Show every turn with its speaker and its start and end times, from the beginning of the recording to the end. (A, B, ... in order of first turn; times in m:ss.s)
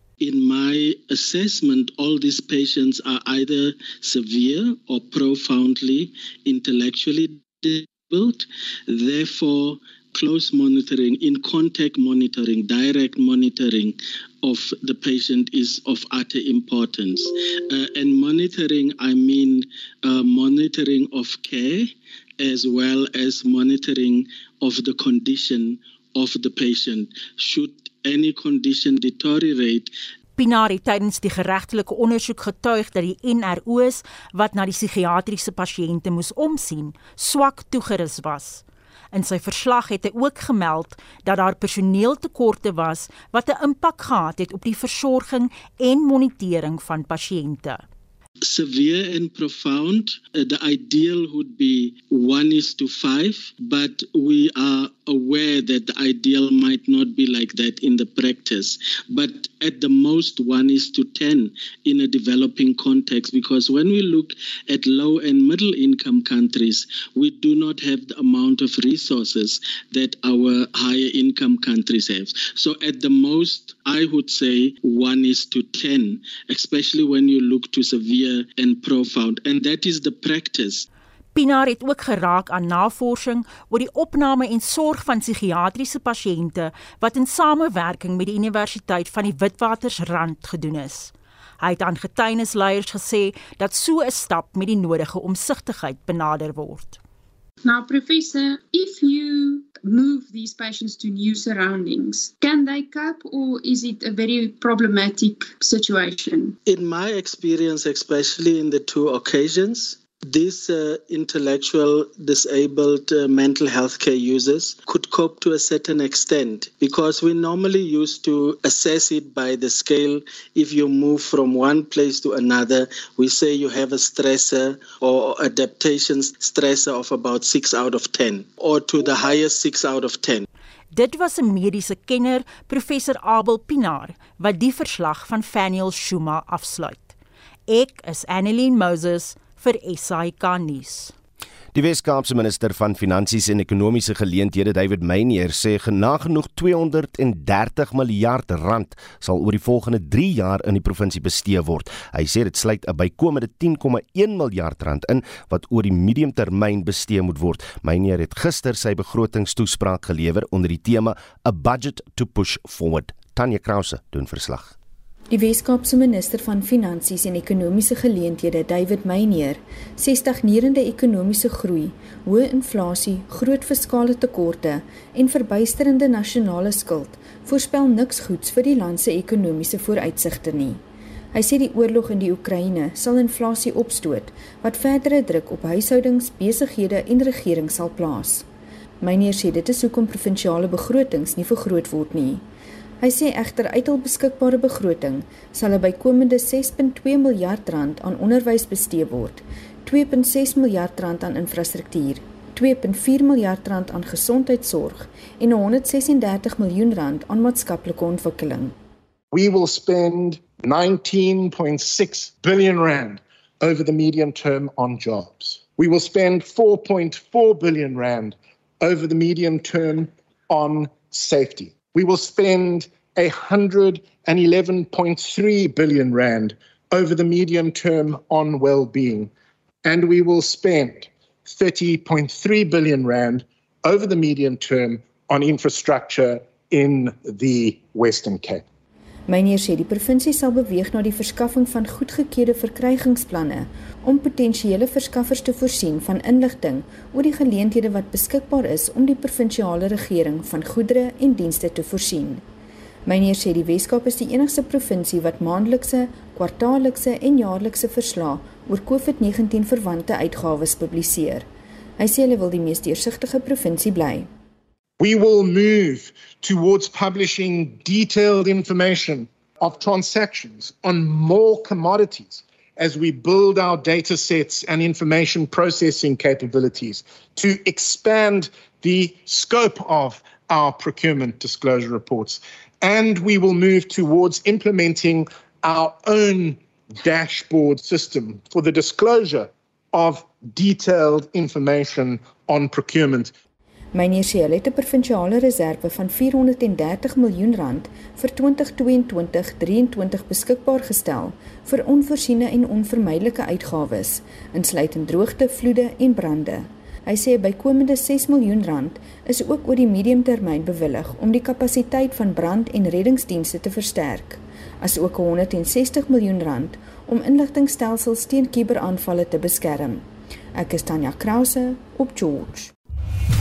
0:00.2-0:30.0 A
0:30.4-0:47.8 B
0:48.4-1:20.9 A
1:21.4-1:37.0 B
1:37.6-1:46.6 C
1:46.6-2:10.4 A
2:10.9-2:17.1 B
2:17.7-2:21.2 B
2:21.7-2:44.8 D
2:45.3-3:00.8 E
3:01.3-3:08.5 E
3:09.0-3:12.4 E
3:13.0-3:28.8 E
3:29.3-3:49.3 F
3:49.8-3:58.6 F
3:59.3-4:12.4 E
4:13.1-4:21.4 E
4:22.0-4:24.3 E
4:25.0-4:53.3 F
4:53.9-5:22.7 E